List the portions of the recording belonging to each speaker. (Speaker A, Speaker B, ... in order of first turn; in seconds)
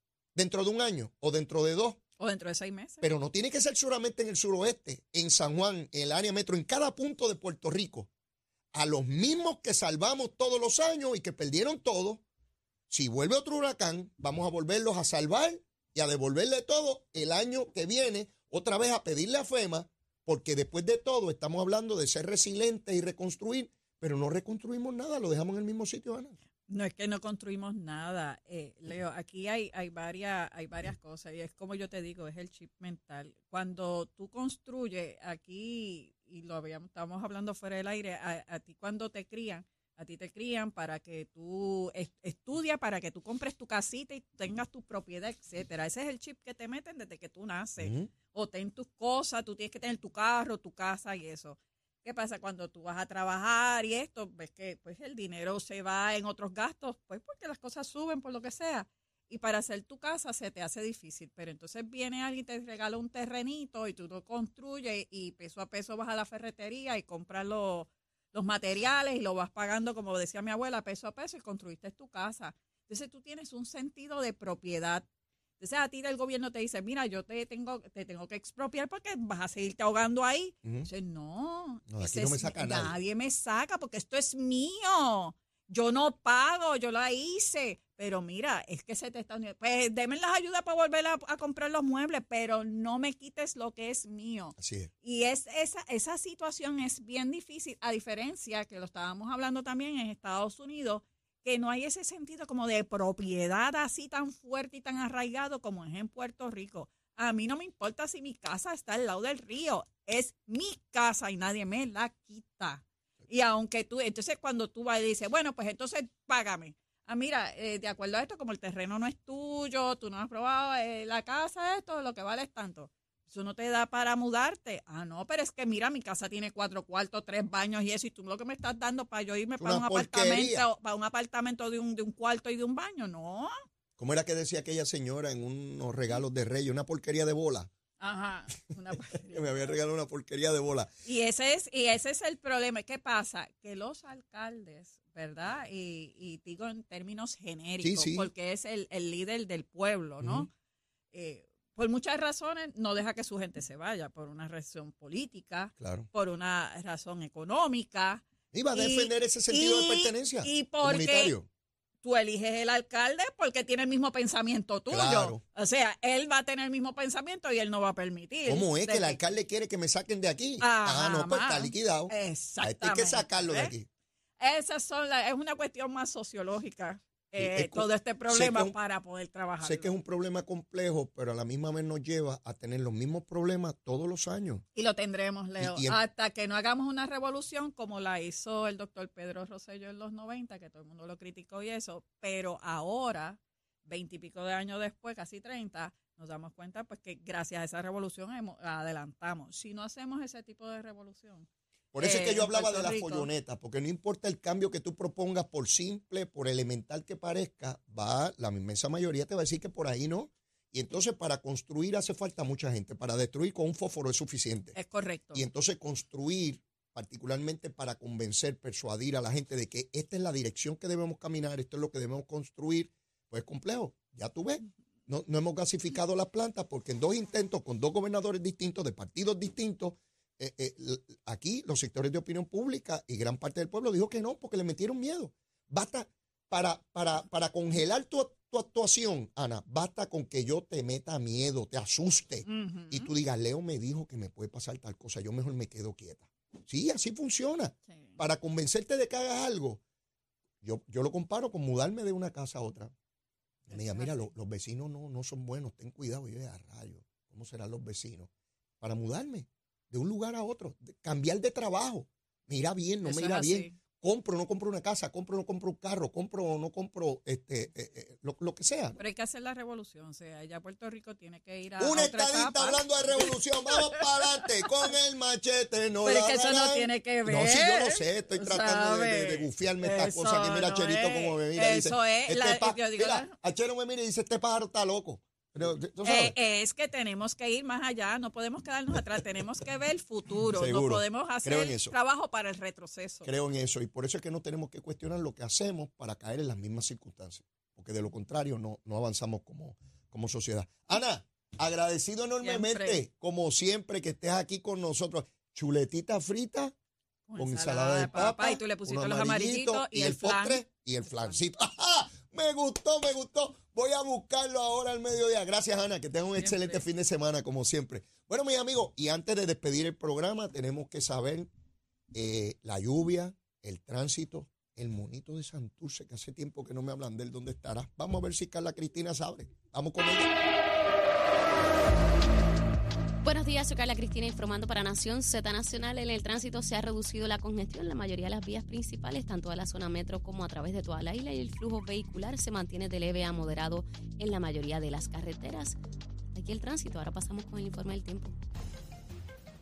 Speaker A: 0.3-2.0, 3.0-8.1, 8.7-12.2, 12.9-26.4, 47.8-48.1, 80.6-80.9, 81.9-82.9, 94.6-94.9, 129.6-130.7, 134.0-137.7, 139.1-140.9, 147.8-148.3, 150.2-150.5, 155.8-156.1, 158.5-161.5, 164.9-165.4, 168.4-173.9, 177.4-178.7, 179.6-184.6, 185.6-186.0, 201.9-214.8, 215.3-249.8, 250.6-252.9, 253.7-258.3, 258.8-269.0, 271.8-286.3, 290.5-291.9, 293.2-306.7, 307.4-321.5, 322.1-330.3
Speaker B: 2.2-3.1, 26.7-75.0, 75.6-133.5, 138.0-139.7, 141.0-150.5, 151.1-161.3, 162.0-169.2, 170.6-173.7, 174.4-179.9, 184.7-201.5, 202.0-203.3, 214.7-215.4, 242.4-243.1, 247.9-248.2, 253.7-254.3, 263.0-263.7, 269.0-274.2, 276.0-283.3, 286.0-293.3, 302.4-303.0, 307.3-311.4, 316.4-316.8
Speaker C: 333.2-345.8, 346.3-348.3